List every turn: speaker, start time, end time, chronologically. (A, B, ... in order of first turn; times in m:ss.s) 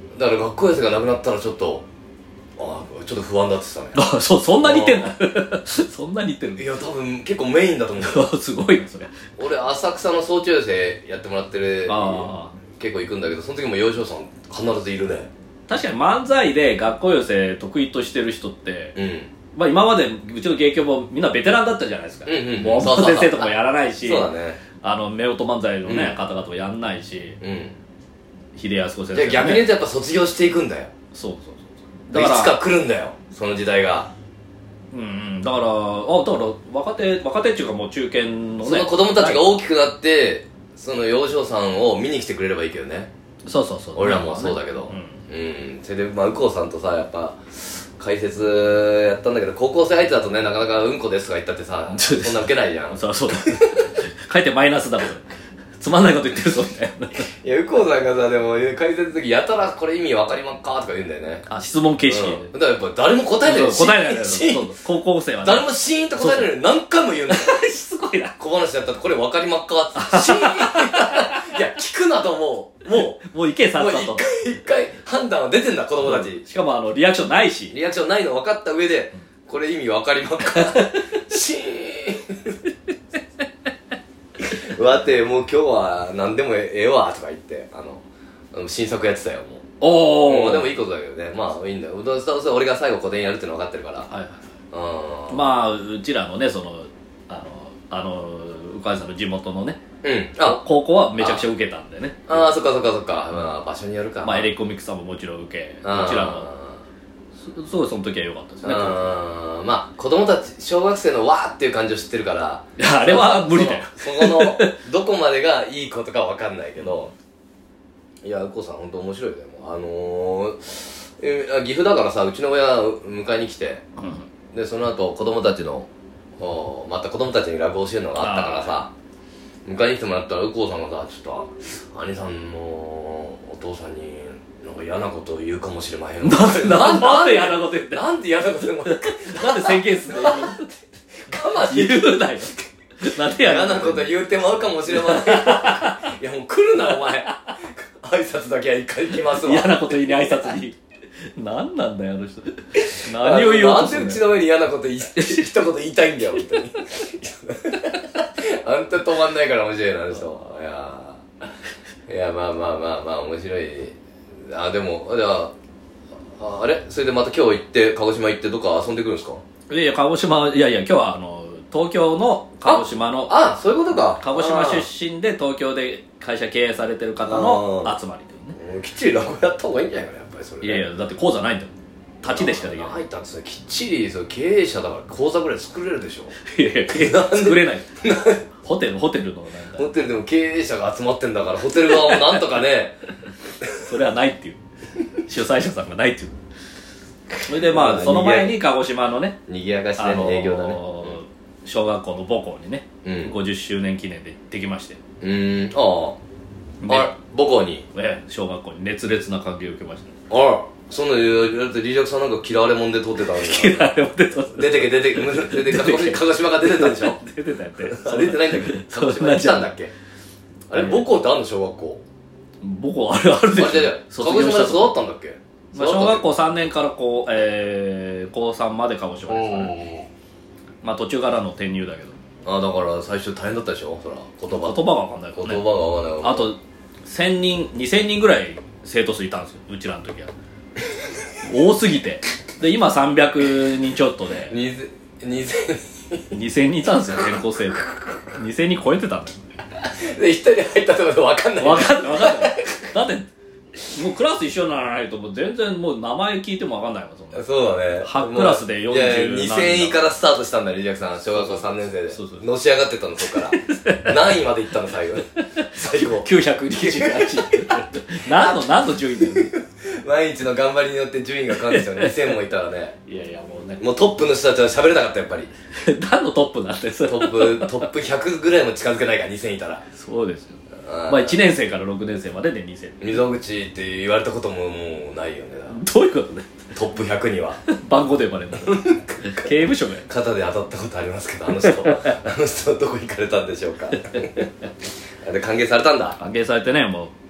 0:00.2-0:01.8 A
0:02.6-0:04.0 A
0:03.9-0:06.8 B
0:04.6-0:05.1 A
0:06.6-0:08.3 A
0:08.0-0:09.4 B
0:09.4-0:15.3 A
0:11.9-0:12.6 B
0:15.7-0:19.0 B
0:19.0-0:19.3 A
0:19.5-0:27.4 B
0:22.3-0:24.6 A
0:25.9-0:26.2 A
0:27.4-0:27.8 A
0:28.6-0:29.7 B
0:29.1-0:30.9 A
0:31.1-0:32.6 B
0:32.1-0:34.1 A
0:34.9-0:39.6 B
0:38.6-0:43.1 A
0:43.5-0:45.2 B
0:44.0-0:53.8 A
0:51.9-0:55.3 B
0:55.8-0:57.3 B
0:57.4-1:01.5 A
1:01.5-1:02.5 B
1:02.1-1:04.8 A
1:03.4-1:06.5 B
1:05.4-1:07.5 A
1:07.3-1:08.4 B
1:08.4-1:16.4 A
1:10.0-1:11.6 B
1:13.0-1:14.3 B
1:16.0-1:17.8 B
1:17.7-1:22.6 A
1:20.4-1:21.2 B
1:24.4-1:34.1 A
1:29.8-1:30.8 B
1:34.1-1:34.4 B
1:34.7-1:35.5 A
1:35.3-1:39.8 B
1:40.0-1:40.6 A
1:40.4-1:42.5 B
1:41.2-1:41.4 A
1:42.3-1:44.5 A
1:44.2-1:46.5 B
1:45.8-1:46.8 A
1:47.4-1:49.1 B
1:48.6-1:57.1 A
1:52.8-1:54.8 B
1:56.8-1:57.1 B
1:58.2-2:03.8 A
2:04.0-2:04.3 B
2:04.5-2:08.9 A
2:08.2-2:08.8 B
2:09.7-2:20.6 A
2:16.2-2:18.1 B
2:18.6-2:20.7 B
2:21.3-2:22.6 A
2:21.4-2:26.1 B
2:23.2-2:30.6 A
2:26.8-2:27.6 B
2:29.1-2:30.8 B
2:31.4-2:34.3 B
2:33.0-2:41.2 A
2:35.1-2:36.7 B
2:40.1-2:40.4 B
2:42.1-2:44.0 A
2:44.5-2:45.5 A
2:46.4-2:49.4 A
2:49.7-2:53.4 B
2:52.6-2:54.9 A
2:54.0-2:58.6 B
2:57.2-2:58.0 A
2:58.6-3:00.9 A
3:00.6-3:03.0 B
3:02.2-3:08.4 A
3:06.4-3:08.0 B
3:08.6-3:09.9 B
3:09.7-3:13.0 A
3:11.9-3:12.5 B
3:13.8-3:14.6 B
3:15.2-3:16.3 B
3:17.4-3:19.4 B
3:17.5-3:18.6 A
3:19.5-3:21.2 A
3:20.0-3:25.0 B
3:23.0-3:23.4 A
3:25.2-3:26.2 A
3:26.8-3:27.1 B
3:26.9-3:27.8 A
3:27.9-3:30.2 B
3:30.3-3:34.0 A
3:33.2-3:39.7 B
3:34.5-3:37.2 A
3:37.8-3:39.9 A
3:40.7-3:42.0 A
3:40.7-3:41.1 B
3:42.6-3:45.0 B
3:43.5-3:46.3 A
3:45.7-3:49.8 B
3:49.3-3:50.1 A
3:50.8-3:52.2 B
3:52.4-3:54.8 A
3:54.5-3:55.6 B
3:55.4-3:56.5 A
3:56.2-4:00.3 B
4:01.4-4:04.6 B
4:04.5-4:06.3 A
4:06.3-4:09.4 B
4:09.8-4:12.7 A
4:11.6-4:13.3 B
4:13.9-4:17.5 B
4:17.3-4:33.0 A
4:18.0-4:20.1 B
4:21.2-4:22.4 B
4:23.2-4:24.4 B
4:24.9-4:29.6 B
4:31.5-4:32.4 B
4:33.1-4:33.9 B
4:33.8-4:35.5 A
4:35.7-4:38.0 B
4:37.1-4:39.8 A
4:39.9-4:43.2 B
4:40.8-4:41.4 A
4:43.0-4:45.8 A
4:45.7-4:46.7 B
4:46.7-4:47.6 A
4:47.7-4:50.1 B
4:48.6-4:54.5 A
4:54.1-4:54.5 B
4:55.2-4:56.2 A
4:56.2-4:57.1 B